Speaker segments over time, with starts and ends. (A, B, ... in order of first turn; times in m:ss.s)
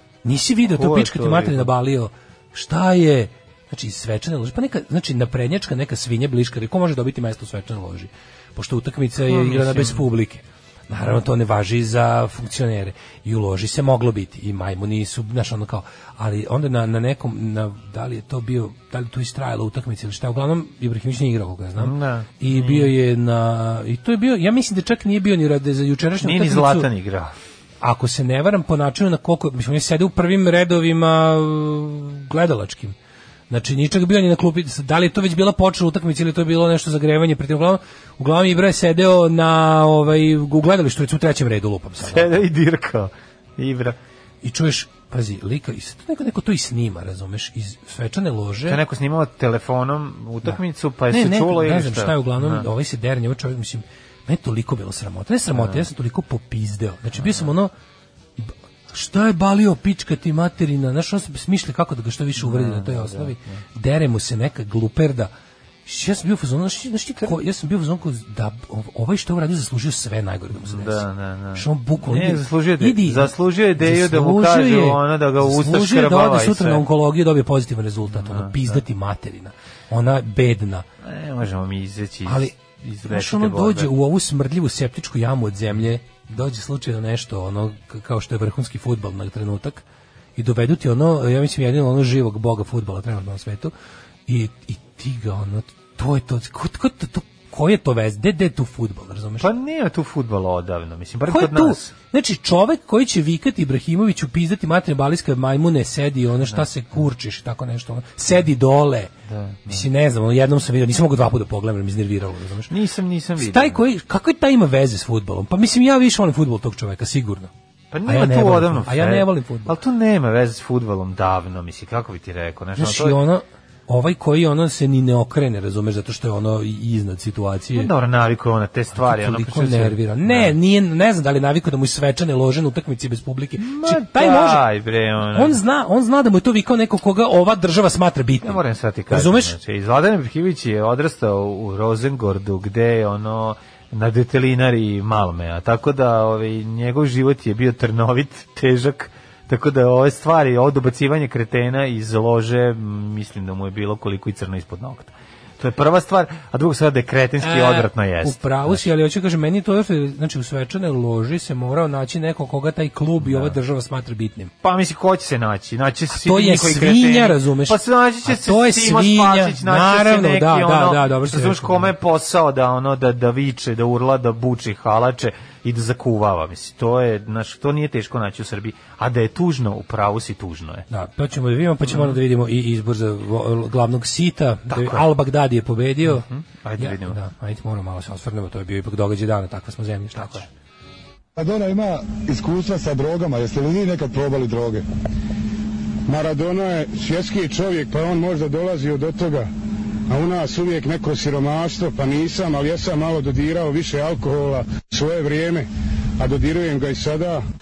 0:00.2-0:26.9 A
0:00.6-0:01.7 B
0:09.3-0:10.1 B
0:21.8-0:22.9 B
0:26.2-0:27.4 B
0:27.8-0:33.0 A
0:33.5-0:42.4 A
0:42.0-0:44.0 B
0:44.4-0:48.8 A
0:48.7-0:52.7 B
0:51.1-0:57.7 A
0:55.5-0:55.8 B
0:57.2-0:57.5 B
0:58.4-1:05.3 A
1:02.4-1:03.6 B
1:05.9-1:20.9 A
1:10.5-1:16.9 B
1:18.1-1:18.8 B
1:21.0-1:23.9 B
1:22.3-1:22.6 A
1:23.1-1:29.8 A
1:30.4-1:33.7 A
1:34.3-1:39.5 A
1:39.4-1:41.9 B
1:41.3-1:49.1 A
1:49.3-1:49.8 B
1:49.7-1:52.7 A
1:52.7-1:53.8 B
1:53.4-1:57.5 A
1:57.9-2:03.2 B
1:58.1-1:59.8 A
2:02.8-2:07.9 A
2:07.7-2:10.6 B
2:09.0-2:14.6 A
2:13.6-2:15.6 B
2:15.3-2:19.6 A
2:18.4-2:38.8 B
2:37.4-2:44.5 A
2:43.2-2:43.6 B
2:44.6-3:00.9 B
2:46.1-2:51.9 A
3:00.9-3:06.3 A
3:01.9-3:02.2 B
3:04.7-3:05.0 B
3:06.0-3:07.2 B
3:06.8-3:10.5 A
3:10.2-3:10.5 B
3:11.4-3:14.8 C
3:16.1-3:19.5 C
3:20.1-3:25.7 C
3:26.2-3:27.4 C